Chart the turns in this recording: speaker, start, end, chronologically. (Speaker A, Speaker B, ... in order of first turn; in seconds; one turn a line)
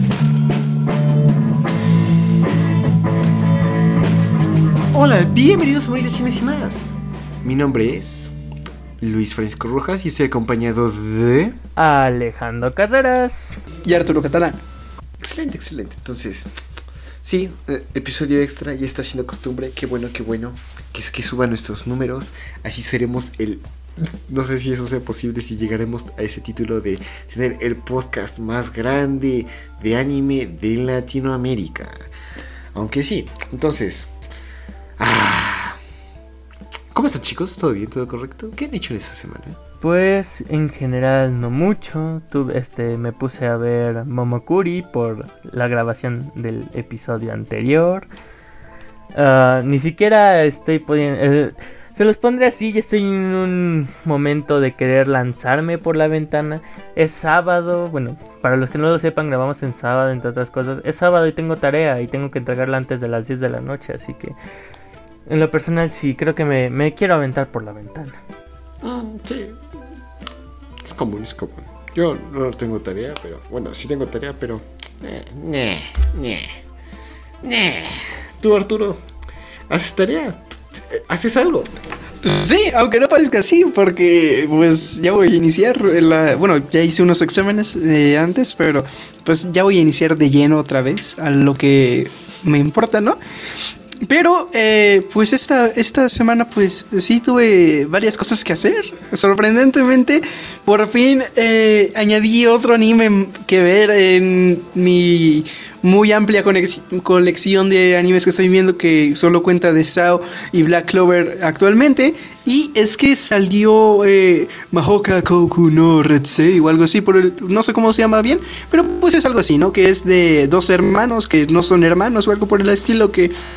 Speaker A: 4.9-8.3
Speaker A: 9.0-11.6
Speaker B: 11.8-13.6
Speaker C: 13.8-14.6
Speaker A: 15.2-16.5
Speaker A: 17.2-31.9
Speaker A: 32.7-34.1
Speaker A: 35.0-35.8
Speaker A: 36.9-39.6
Speaker B: 39.8-48.0
Speaker B: 49.1-64.3
Speaker B: 65.3-68.2
Speaker A: 68.8-69.6
Speaker A: 70.8-76.6
Speaker A: 77.4-79.0
Speaker A: 79.7-81.7
Speaker C: 82.2-93.2
Speaker C: 94.0-123.3